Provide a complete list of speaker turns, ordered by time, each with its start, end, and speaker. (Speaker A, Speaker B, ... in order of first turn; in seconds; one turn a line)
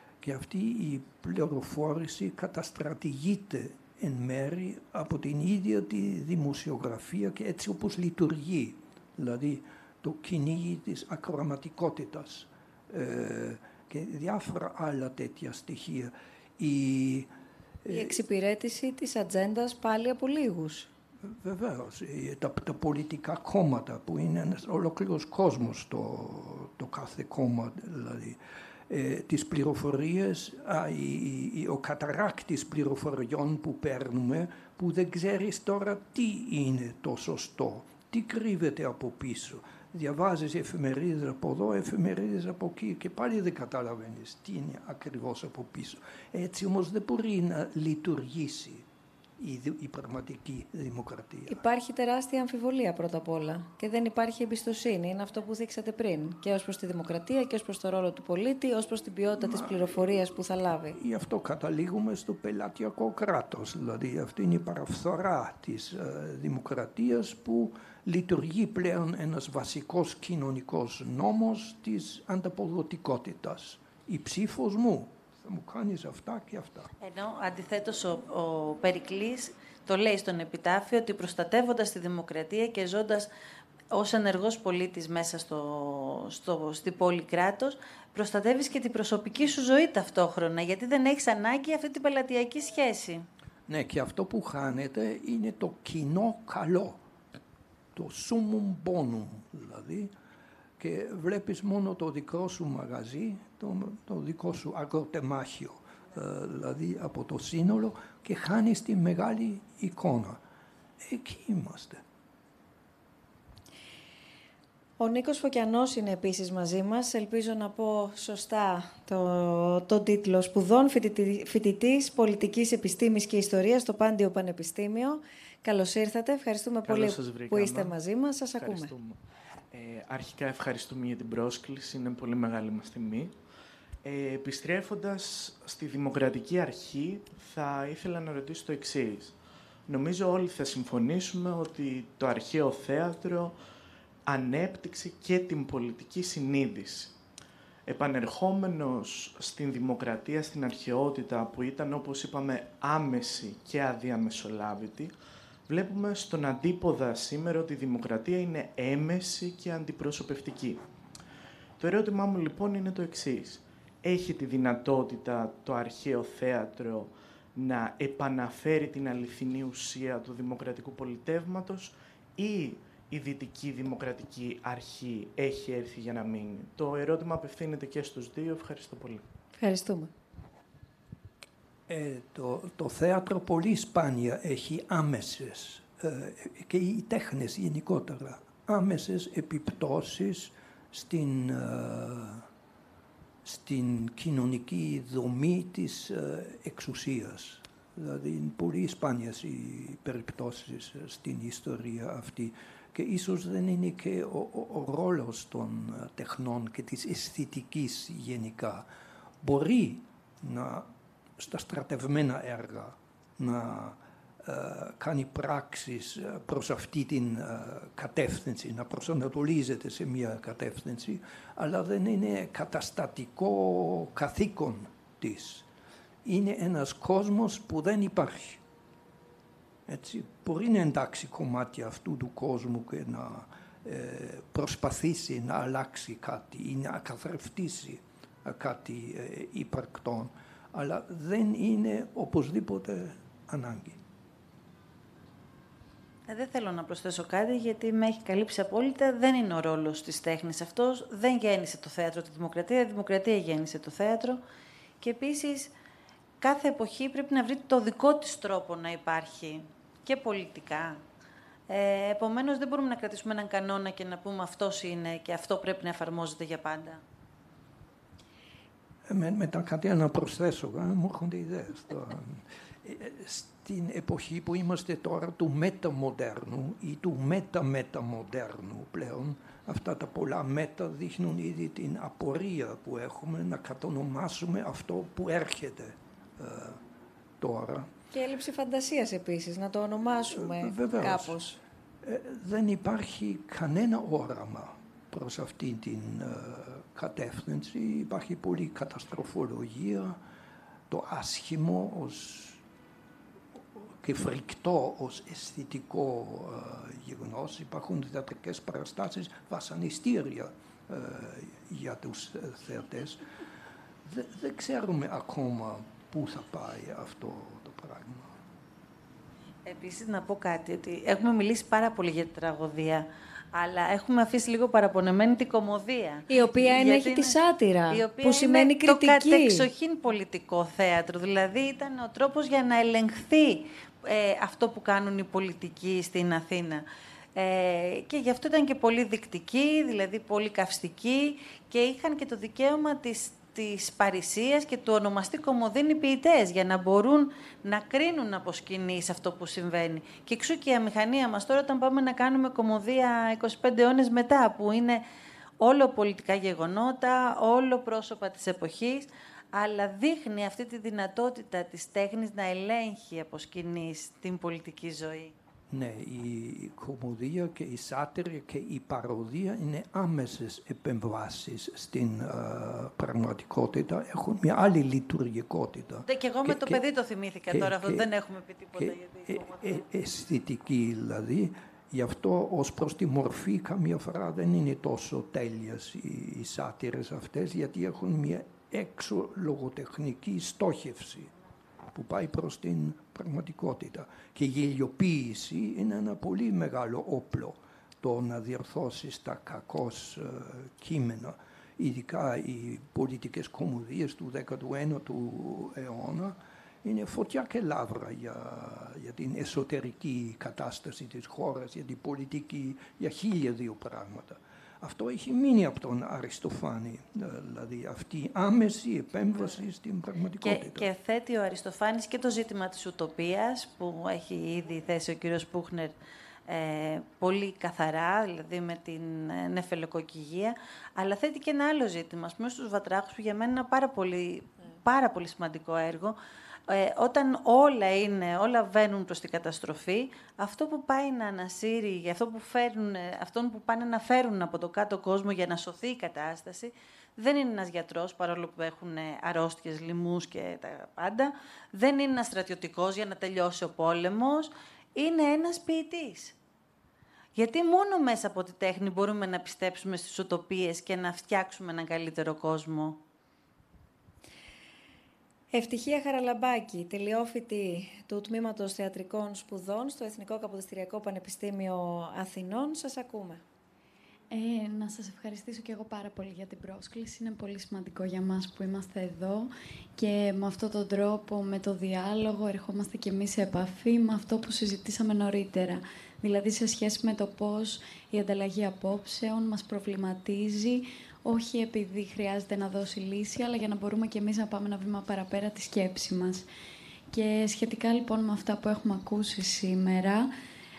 Speaker A: 0.2-17.3
Speaker A: 17.8-18.2
Speaker B: 17.9-20.9
Speaker A: 21.2-48.9
Speaker A: 49.4-51.6
Speaker B: 51.5-61.0
Speaker A: 59.4-60.1
Speaker A: 60.9-76.9
Speaker C: 77.0-83.3
Speaker C: 83.9-93.3
Speaker A: 93.7-97.0
Speaker A: 97.9-100.1
Speaker A: 100.8-110.4
Speaker A: 111.0-112.0
Speaker B: 115.0-128.9
Speaker D: 126.8-128.0
Speaker D: 128.6-129.2
Speaker D: 129.7-133.3
Speaker D: 134.0-143.6
Speaker D: 144.2-147.2
Speaker D: 147.8-155.1
Speaker D: 155.7-160.8
Speaker D: 161.8-179.2
Speaker B: 179.6-180.1
Speaker A: 181.9-192.5
Speaker A: 193.4-208.9
Speaker A: 209.4-225.7
Speaker A: 226.2-228.6
Speaker A: 229.9-244.0
Speaker C: 246.3-254.4
Speaker C: 255.0-255.7
Speaker C: 256.4-261.0
Speaker C: 261.7-267.0
Speaker A: 269.1-286.8
Speaker A: 287.4-287.9
Speaker B: 288.1-291.6
Speaker A: 290.3-291.4
Speaker A: 292.0-300.2
Speaker A: 300.9-302.6
Speaker A: 303.8-313.2
Speaker A: 314.0-318.3
Speaker C: 319.6-327.4
Speaker B: 326.3-329.6
Speaker C: 327.9-355.0
Speaker C: 355.6-365.3
Speaker A: 365.7-376.8
Speaker C: 376.1-379.8
Speaker A: 377.5-378.1
Speaker A: 378.8-391.3
Speaker A: 391.9-420.9
Speaker C: 420.4-425.9
Speaker C: 426.5-456.4
Speaker C: 457.3-463.0
Speaker B: 465.5-473.4
Speaker E: 474.3-496.4
Speaker E: 497.1-500.3